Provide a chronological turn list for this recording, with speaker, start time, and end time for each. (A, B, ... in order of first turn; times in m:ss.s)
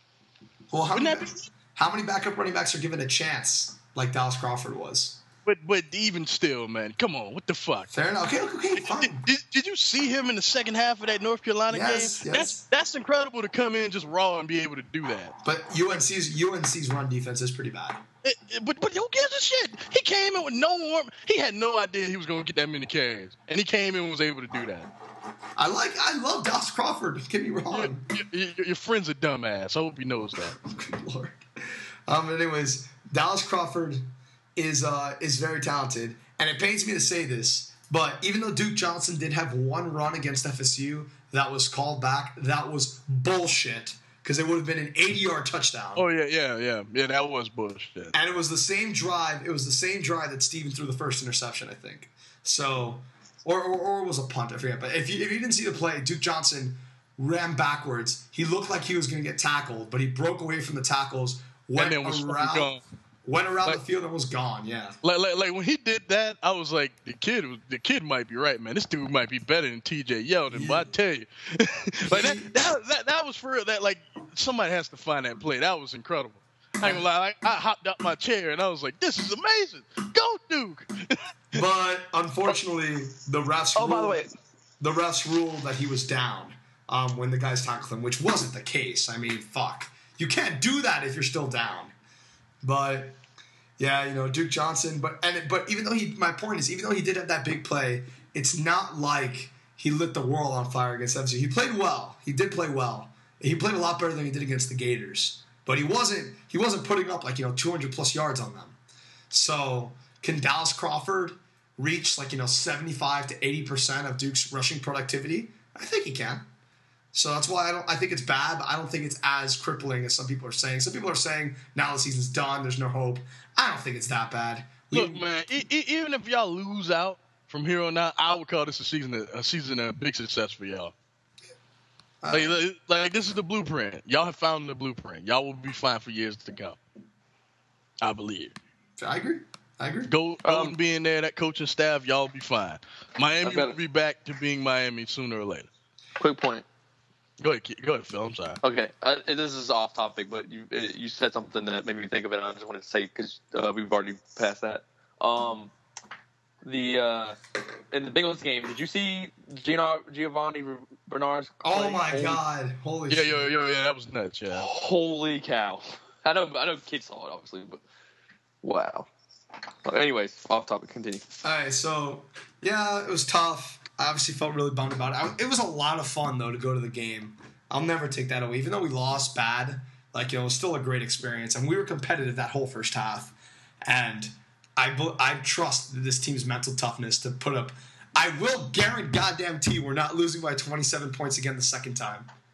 0:00.7-0:05.2 A
0:00.9-0:01.4 B
0:05.4-0:07.9 B
0:07.9-0:09.2 A
0:08.8-0:15.4 B
0:11.7-0:12.6 A
0:15.4-0:18.0 A
0:18.2-0:24.9 B
0:25.6-0:28.1 A
0:27.7-0:30.6 B
0:30.6-0:31.4 A
0:32.1-0:46.0 A
0:46.0-0:48.1 B
0:48.1-1:02.7 A
1:01.8-1:02.8 B
1:03.2-1:05.0 A
1:05.0-1:21.6 B
1:10.5-1:10.9 A
1:12.1-1:12.5 A
1:21.5-1:24.2 A
1:23.8-1:24.3 C
1:24.8-1:31.9 A
1:32.6-1:33.2 A
1:33.8-1:48.8 A
1:49.3-1:56.4 A
1:57.1-2:05.2 A
2:04.9-2:10.9 B
2:12.2-2:12.6 A
2:12.3-2:16.8 B
2:18.0-2:18.6 B
2:19.0-2:20.1 A
2:20.1-2:25.7 B
2:20.4-2:20.7 C
2:23.4-2:23.8 C
2:26.2-2:26.6 C
2:27.4-2:28.6 B
2:28.6-2:35.7 C
2:36.6-2:37.4 C
2:37.9-2:42.4 C
2:41.6-2:43.5 A
2:43.1-2:44.7 B
2:44.5-2:47.8 C
2:48.6-2:49.1 C
2:49.8-2:51.2 C
2:51.4-3:12.3 A